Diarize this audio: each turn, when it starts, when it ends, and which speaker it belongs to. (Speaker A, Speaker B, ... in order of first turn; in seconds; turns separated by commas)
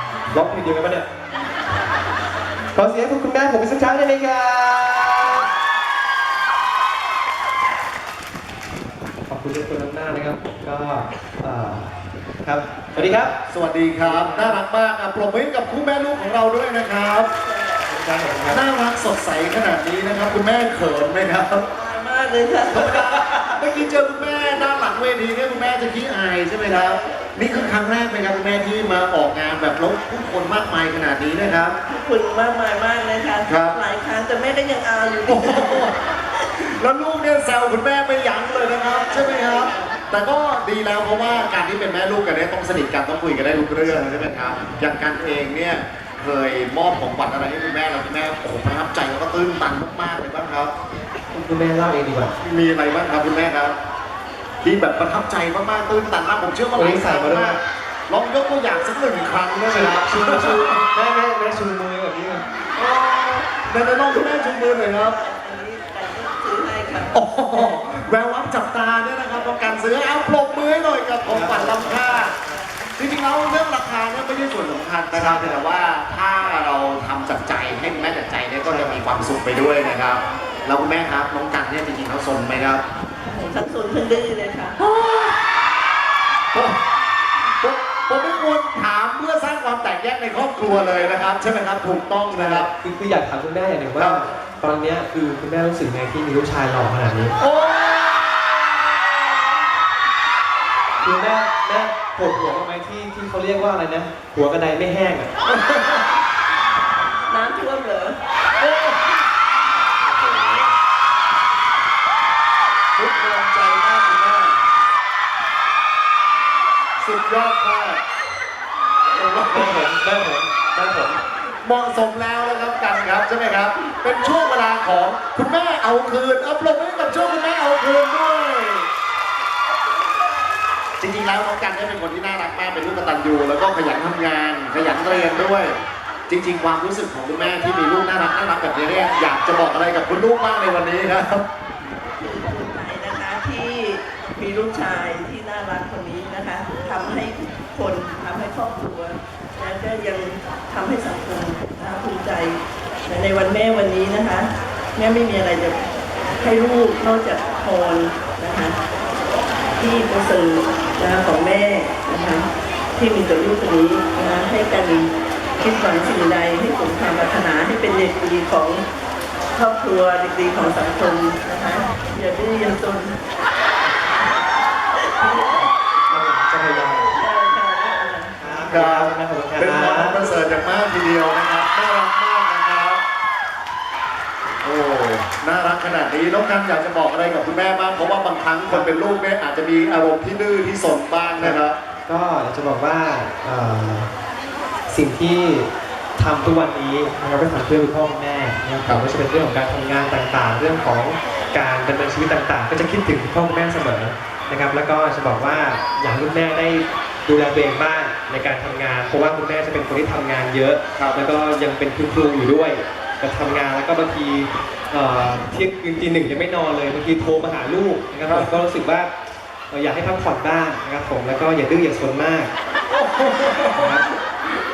Speaker A: 0.3-1.1, Speaker A: 2.7-5.5, Speaker A: 9.3-13.3, Speaker B: 13.0-17.3, Speaker A: 14.0-14.6, Speaker C: 17.4-17.8, Speaker A: 17.9-18.6, Speaker B: 18.5-21.7, Speaker C: 21.7-23.2, Speaker B: 22.7-31.8, Speaker C: 26.6-27.4, Speaker C: 31.9-36.4, Speaker B: 33.5-33.8, Speaker B: 35.3-36.0, Speaker B: 36.6-50.7, Speaker C: 39.1-40.0, Speaker A: 43.8-44.1, Speaker A: 51.3-52.4, Speaker B: 52.4-53.8, Speaker B: 54.6-60.8, Speaker A: 56.8-57.6, Speaker A: 59.7-62.5, Speaker B: 62.8-65.2, Speaker C: 64.2-67.8, Speaker B: 67.1-72.4, Speaker A: 71.3-72.7, Speaker B: 73.0-82.8, Speaker A: 75.1-75.7, Speaker A: 78.7-79.2, Speaker C: 83.3-84.8, Speaker B: 84.8-85.4, Speaker B: 86.5-86.8, Speaker B: 87.6-92.7, Speaker A: 92.3-97.4, Speaker B: 94.0-94.2, Speaker B: 97.4-99.5, Speaker A: 101.0-105.3, Speaker B: 105.5-106.1, Speaker C: 107.3-108.2, Speaker B: 108.6-109.0, Speaker B: 110.0-110.8, Speaker B: 113.0-114.6, Speaker B: 117.0-118.0, Speaker B: 119.1-119.8, Speaker A: 119.5-121.2, Speaker B: 121.6-128.9, Speaker B: 131.0-141.4, Speaker C: 142.0-155.8, Speaker C: 156.4-158.8, Speaker C: 159.8-168.8, Speaker C: 169.5-173.2, Speaker C: 175.0-175.4, Speaker A: 175.2-177.1, Speaker C: 176.9-178.7, Speaker A: 178.4-180.2, Speaker B: 178.7-183.0, Speaker C: 180.2-180.6, Speaker B: 184.6-191.8, Speaker A: 188.7-188.9, Speaker A: 191.4-194.1, Speaker A: 194.9-219.1, Speaker B: 210.9-211.2, Speaker B: 218.2-218.6, Speaker A: 219.7-222.5, Speaker B: 222.9-224.0, Speaker A: 223.8-224.1